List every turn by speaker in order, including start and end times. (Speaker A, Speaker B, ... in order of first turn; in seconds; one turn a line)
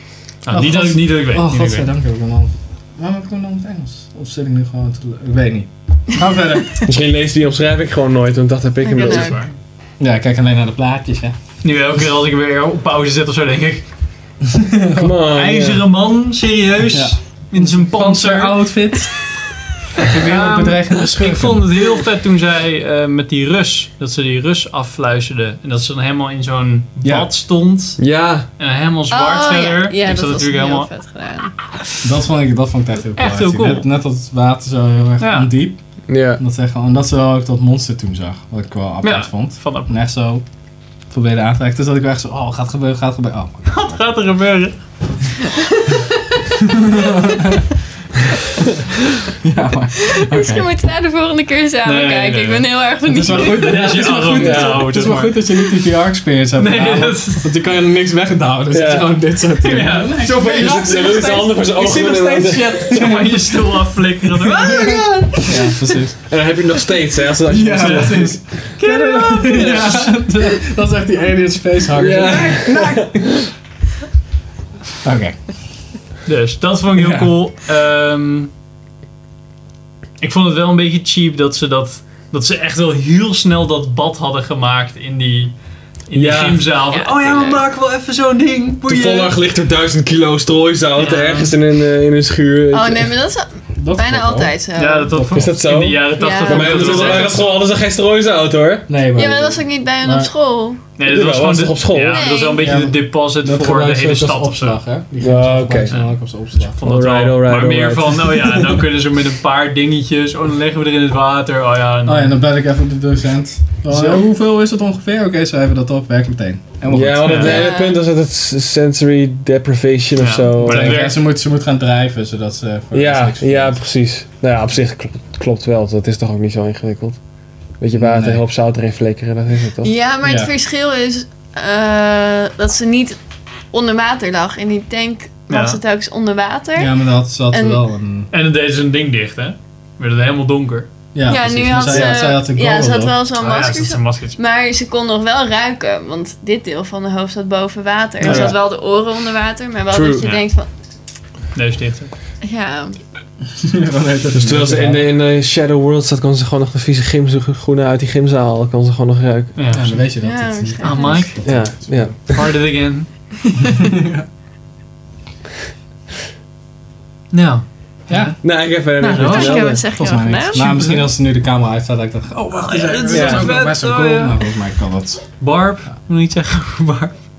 Speaker A: 0.2-6.9
Speaker B: 0.4-1.9
Speaker C: 6.9-9.4
Speaker D: 8.8-9.5
Speaker B: 9.0-9.6
Speaker A: 10.0-11.3
Speaker B: 11.6-13.9
Speaker A: 14.5-15.1
Speaker C: 14.9-15.8
Speaker B: 15.3-18.7
Speaker A: 16.9-19.4
Speaker A: 20.0-21.7
Speaker B: 20.2-30.9
Speaker A: 27.0-27.3
Speaker C: 28.0-28.5
Speaker D: 29.1-31.5
Speaker A: 32.0-40.4
Speaker B: 33.2-33.9
Speaker B: 35.2-35.5
Speaker C: 36.1-36.4
Speaker B: 39.0-39.9
Speaker A: 41.1-44.0
Speaker B: 43.7-44.8
Speaker D: 45.7-46.0
Speaker A: 46.7-47.7
Speaker A: 49.4-50.7
Speaker D: 50.1-54.0
Speaker B: 51.9-52.7
Speaker A: 53.1-63.6
Speaker B: 53.3-55.4
Speaker C: 54.4-54.9
Speaker B: 56.6-57.5
Speaker C: 58.7-59.4
Speaker B: 59.6-65.0
Speaker C: 60.2-63.2
Speaker A: 64.6-66.3
Speaker C: 64.6-65.5
Speaker C: 66.3-68.6
Speaker A: 67.5-73.3
Speaker B: 68.8-70.2
Speaker C: 72.0-73.5
Speaker A: 75.0-75.7
Speaker B: 76.3-78.5
Speaker A: 76.9-77.4
Speaker B: 80.2-85.5
Speaker B: 86.1-89.3
Speaker C: 86.1-86.7
Speaker D: 86.9-87.6
Speaker C: 88.9-93.1
Speaker B: 91.0-91.5
Speaker D: 92.7-95.1
Speaker A: 93.8-94.5
Speaker B: 94.8-97.5
Speaker A: 95.1-95.8
Speaker C: 95.3-98.9
Speaker D: 96.2-97.2
Speaker A: 96.5-97.5
Speaker A: 98.9-100.3
Speaker D: 99.2-100.8
Speaker B: 101.0-104.8
Speaker C: 101.0-102.3
Speaker D: 102.1-102.7
Speaker A: 102.6-106.8
Speaker C: 105.2-105.9
Speaker B: 105.9-112.4
Speaker C: 106.8-108.8
Speaker A: 112.0-117.7
Speaker C: 113.9-114.2
Speaker C: 116.9-121.0
Speaker B: 117.2-117.6
Speaker D: 117.4-118.0
Speaker B: 120.2-121.2
Speaker A: 120.6-123.8
Speaker C: 122.9-127.2
Speaker C: 127.8-129.9
Speaker A: 128.0-128.4
Speaker D: 129.8-133.2
Speaker A: 130.2-130.5
Speaker D: 133.7-136.9
Speaker B: 135.5-135.8
Speaker A: 136.8-138.3
Speaker D: 137.5-137.8
Speaker B: 138.3-140.9
Speaker A: 141.1-143.2
Speaker D: 141.3-150.7
Speaker C: 141.9-142.3
Speaker B: 143.4-144.4
Speaker C: 148.2-148.6
Speaker C: 149.9-150.4
Speaker B: 151.5-152.1
Speaker D: 152.4-153.0
Speaker A: 153.6-155.1
Speaker C: 154.3-159.6
Speaker B: 159.6-160.1
Speaker A: 159.7-162.2
Speaker D: 160.2-161.4
Speaker B: 160.8-163.1
Speaker C: 161.4-162.3
Speaker A: 163.6-164.3
Speaker B: 167.3-169.8
Speaker A: 168.1-168.4
Speaker C: 168.4-169.8
Speaker D: 169.2-170.9
Speaker A: 169.9-175.9
Speaker B: 170.5-171.1
Speaker B: 172.3-174.4
Speaker C: 173.1-173.6
Speaker B: 175.4-177.2